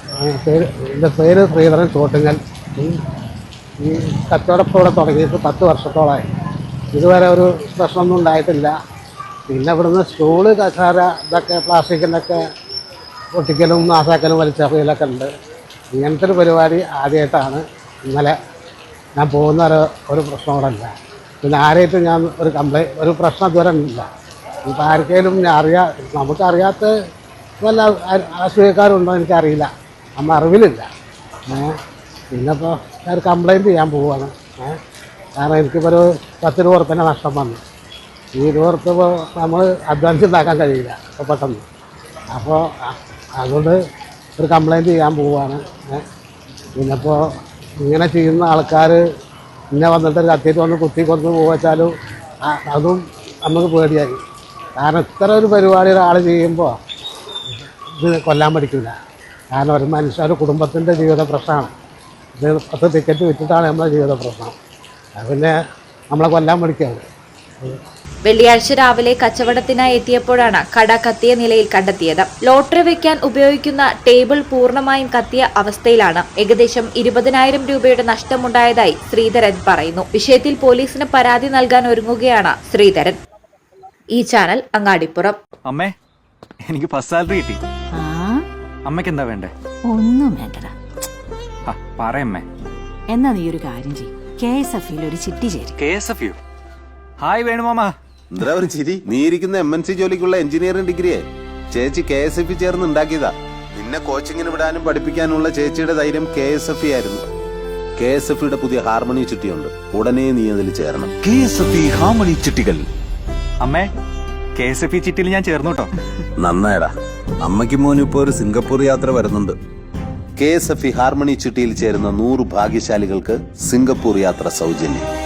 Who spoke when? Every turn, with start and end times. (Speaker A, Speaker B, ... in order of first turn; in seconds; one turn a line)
Speaker A: 0.2-3.0
Speaker A: 3.8-6.2
Speaker A: 6.9-8.7
Speaker A: 9.5-12.4
Speaker A: 13.3-15.3
Speaker A: 15.9-18.3
Speaker A: 19.2-20.9
Speaker A: 21.4-24.1
Speaker A: 24.6-26.9
Speaker A: 27.6-30.9
Speaker A: 31.5-31.8
Speaker A: 32.3-34.8
Speaker A: 35.4-37.6
Speaker A: 38.3-41.6
Speaker A: 42.3-43.8
Speaker A: 44.4-46.0
Speaker A: 46.8-47.2
Speaker A: 47.8-49.0
Speaker A: 49.7-51.9
Speaker A: 52.5-54.1
Speaker A: 54.8-56.7
Speaker A: 58.0-59.0
Speaker A: 59.5-61.7
Speaker A: 62.4-64.5
Speaker A: 65.2-65.6
Speaker A: 66.1-67.0
Speaker B: 68.2-83.2
Speaker B: 84.1-85.4
Speaker C: 85.7-85.9
Speaker C: 86.7-87.6
Speaker D: 87.9-88.5
Speaker C: 88.8-89.5
Speaker D: 89.9-90.8
Speaker C: 91.7-92.4
Speaker E: 91.7-92.4
Speaker D: 93.1-95.8
Speaker C: 95.8-96.3
Speaker C: 97.2-97.9
Speaker F: 98.3-107.2
Speaker F: 108.0-111.2
Speaker E: 111.2-112.6
Speaker F: 112.5-112.8
Speaker C: 113.6-113.9
Speaker C: 114.5-115.9
Speaker F: 116.4-116.9
Speaker F: 117.4-119.6
Speaker F: 120.4-125.1